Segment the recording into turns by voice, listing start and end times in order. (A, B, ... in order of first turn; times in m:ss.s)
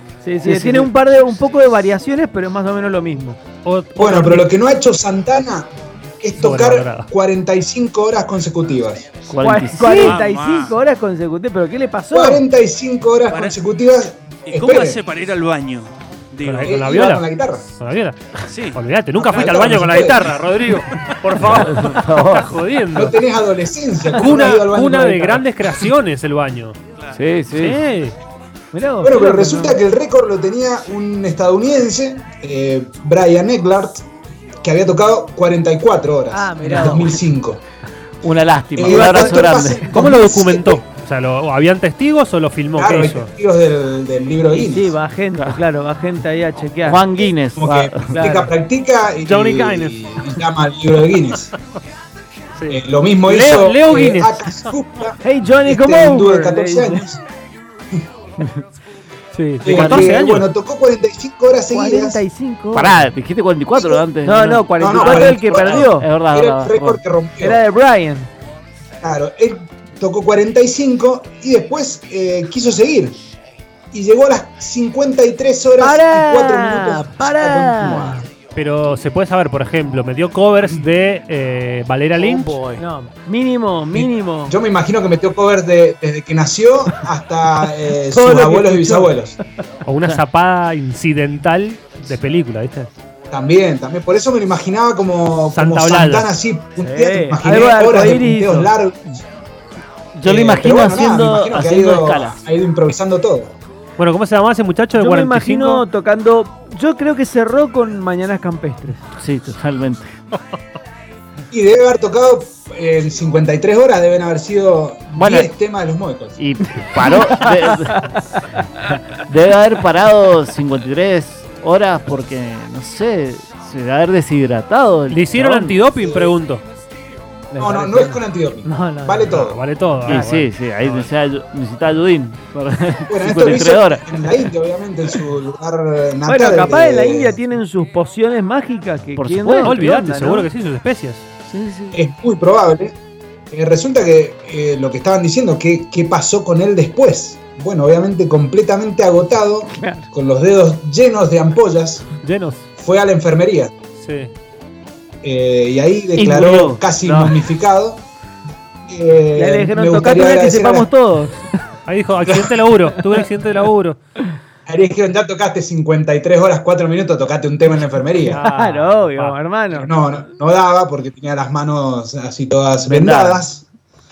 0:00.2-0:03.4 A
0:00.4-0:00.9 B
0:03.6-0:04.5 C
0:04.0-0:09.1 D
0:06.4-0:07.1 C
0:09.3-0:10.2 B
0:09.3-0:12.4 A
0:09.8-0:10.8 E
0:12.1-0:15.0 D
0:13.3-0:13.5 E
0:14.5-0:16.8 E
0:16.4-0:18.2 C
0:16.6-0:17.7 D
0:18.5-0:18.8 E
0:18.7-0:23.2 C
0:19.2-0:20.3 D
0:20.6-0:21.2 E
0:21.4-0:22.6 B
0:22.9-0:25.4 D
0:24.1-0:26.8 C
0:27.1-0:27.8 B
0:27.6-0:28.2 C
0:28.7-0:29.8 A
0:29.0-0:34.0 D
0:34.6-0:37.6 D
0:36.3-0:37.2 A
0:38.2-0:39.8 B
0:38.8-0:40.8 D
0:38.8-0:39.8 A
0:39.8-0:43.3 C
0:42.8-0:44.9 D
0:44.5-0:47.3 A
0:45.4-0:45.6 B
0:46.8-0:48.2 B
0:47.5-0:51.5 D
0:48.1-0:48.5 A
0:49.2-0:50.4 C
0:52.6-0:54.8 C
0:52.7-0:57.2 D
0:55.2-0:57.1 A
0:59.4-1:00.5 C
0:59.6-1:02.2 D
0:59.7-1:00.2 B
1:01.7-1:03.0 A
1:02.7-1:07.0 B
1:03.8-1:04.0 D
1:04.2-1:06.1 A
1:04.8-1:07.6 D
1:07.4-1:08.3 A
1:09.0-1:13.2 D
1:13.9-1:18.3 D
1:15.8-1:18.2 A
1:18.6-1:22.8 C
1:22.2-1:24.6 A
1:23.9-1:29.4 D
1:28.1-1:29.1 A
1:29.9-1:32.9 C
1:33.3-1:39.2 D
1:35.5-1:36.3 C
1:36.8-1:38.7 A
1:40.2-1:42.4 B
1:40.2-1:43.5 D
1:44.0-1:45.8 C
1:45.0-1:49.0 A
1:49.2-1:50.1 B
1:51.5-1:56.4 D
1:55.2-1:55.5 B
1:56.4-1:58.1 B
1:57.0-1:57.4 A
1:59.2-2:05.8 B
2:05.1-2:06.6 C
2:06.0-2:06.4 D
2:07.5-2:09.5 A
2:07.6-2:09.6 D
2:09.3-2:11.1 C
2:10.1-2:10.4 A
2:10.1-2:14.2 B
2:13.1-2:17.4 D
2:16.3-2:20.5 A
2:19.2-2:19.8 B
2:19.6-2:21.3 C
2:21.5-2:22.0 B
2:21.9-2:23.0 D
2:23.5-2:32.1 D
2:29.7-2:30.1 A
2:32.2-2:32.6 C
2:32.8-2:33.7 D
2:34.0-2:34.3 C
2:35.2-2:38.0 D
2:36.2-2:37.5 B
2:38.9-2:40.9 D
2:39.4-2:41.5 A
2:41.9-2:44.0 C
2:42.3-2:42.6 D
2:44.7-2:48.4 D
2:48.2-2:49.4 C
2:48.3-2:50.0 A
2:49.7-2:53.6 D
2:52.8-2:53.4 B